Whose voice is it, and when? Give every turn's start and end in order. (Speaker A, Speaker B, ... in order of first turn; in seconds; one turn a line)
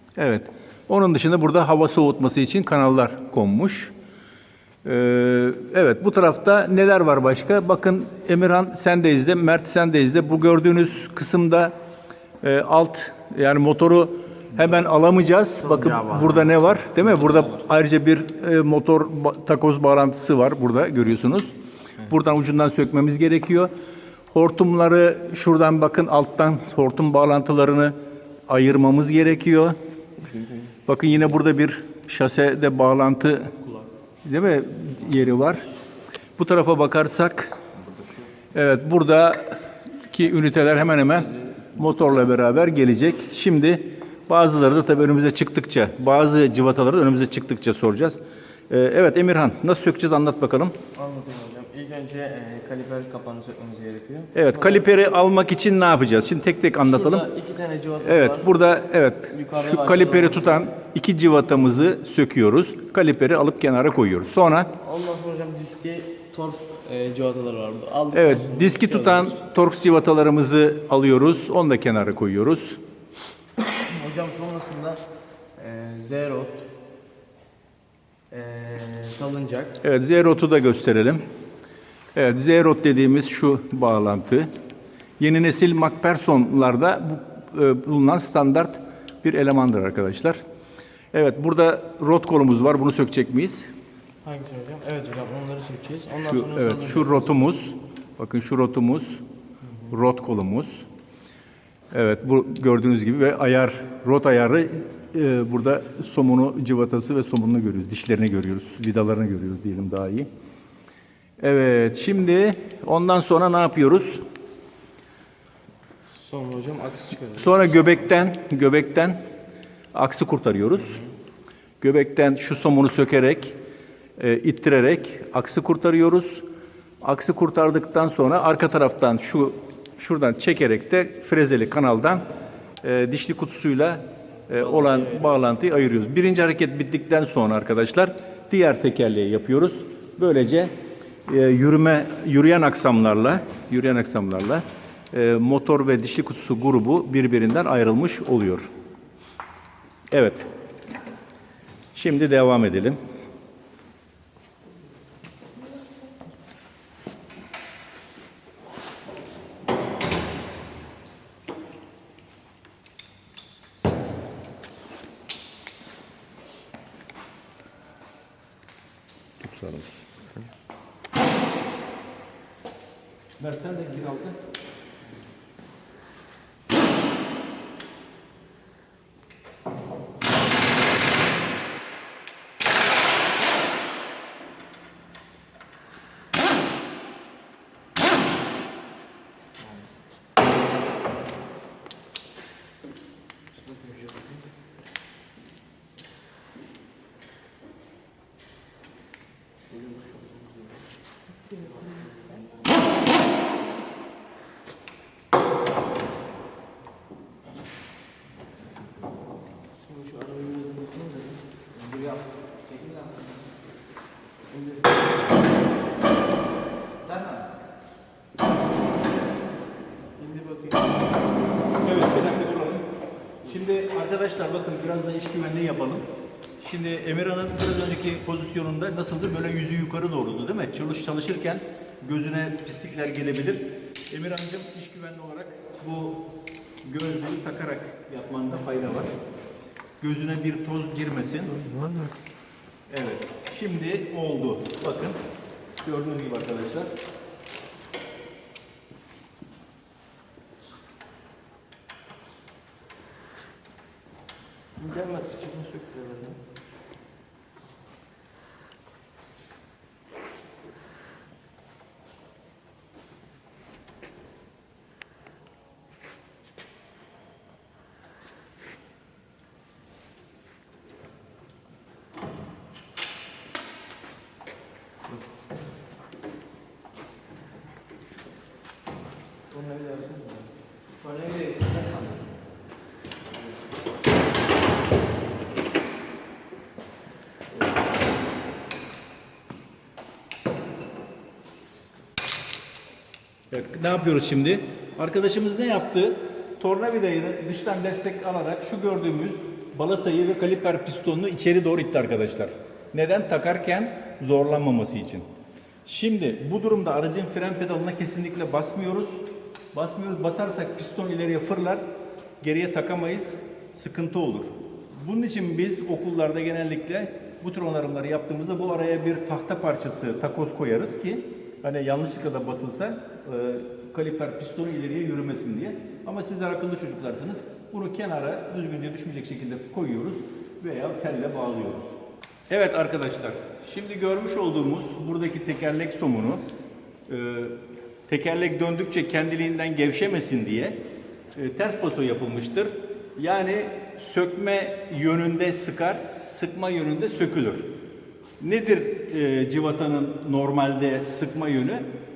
Speaker A: 0.2-3.9
Speaker A: 4.8-11.7
Speaker A: 12.4-23.7
Speaker B: 15.7-16.5
Speaker A: 24.3-27.9
Speaker A: 28.5-29.8
Speaker A: 30.9-33.6
Speaker A: 34.2-35.6
Speaker A: 36.4-37.6
Speaker A: 38.5-50.7
Speaker B: 50.9-54.8
Speaker A: 54.3-57.2
Speaker B: 56.8-58.5
Speaker A: 58.0-64.7
Speaker B: 59.3-60.6
Speaker B: 64.8-69.3
Speaker A: 68.1-72.8
Speaker B: 73.6-75.0
Speaker B: 75.5-76.7
Speaker B: 78.3-79.8
Speaker A: 79.8-81.2
Speaker A: 82.1-84.5
Speaker A: 85.2-90.4
Speaker A: 91.1-93.7
Speaker B: 94.2-97.2
Speaker A: 96.3-99.2
Speaker A: 99.9-100.8
Speaker A: 101.9-110.3
Speaker A: 111.4-114.2
Speaker B: 116.1-117.9
Speaker A: 117.3-119.2
Speaker A: 119.9-121.0
Speaker A: 121.8-123.5
Speaker A: 124.2-126.4
Speaker A: 127.0-132.2
Speaker A: 132.8-140.7
Speaker B: 134.5-135.4
Speaker A: 141.3-148.7
Speaker A: 150.1-150.5
Speaker A: 151.9-153.0
Speaker A: 169.4-170.1
Speaker A: 173.4-174.4
Speaker B: 193.7-194.1
Speaker B: 199.7-200.2
Speaker B: 201.6-202.0
Speaker B: 209.8-213.1
Speaker B: 214.5-215.0
Speaker B: 220.2-221.1
Speaker A: 221.8-222.8
Speaker A: 223.4-226.0
Speaker A: 226.6-236.2
Speaker A: 236.8-239.1
Speaker A: 240.0-241.6
Speaker B: 241.6-242.1
Speaker A: 242.9-245.2
Speaker A: 245.8-246.9
Speaker B: 254.8-256.4
Speaker B: 279.5-280.5
Speaker B: 281.1-281.6
Speaker A: 293.5-305.2
Speaker A: 305.9-311.8
Speaker A: 312.4-331.9
Speaker A: 332.5-336.4
Speaker A: 337.1-340.8
Speaker A: 341.3-347.7
Speaker A: 348.4-351.9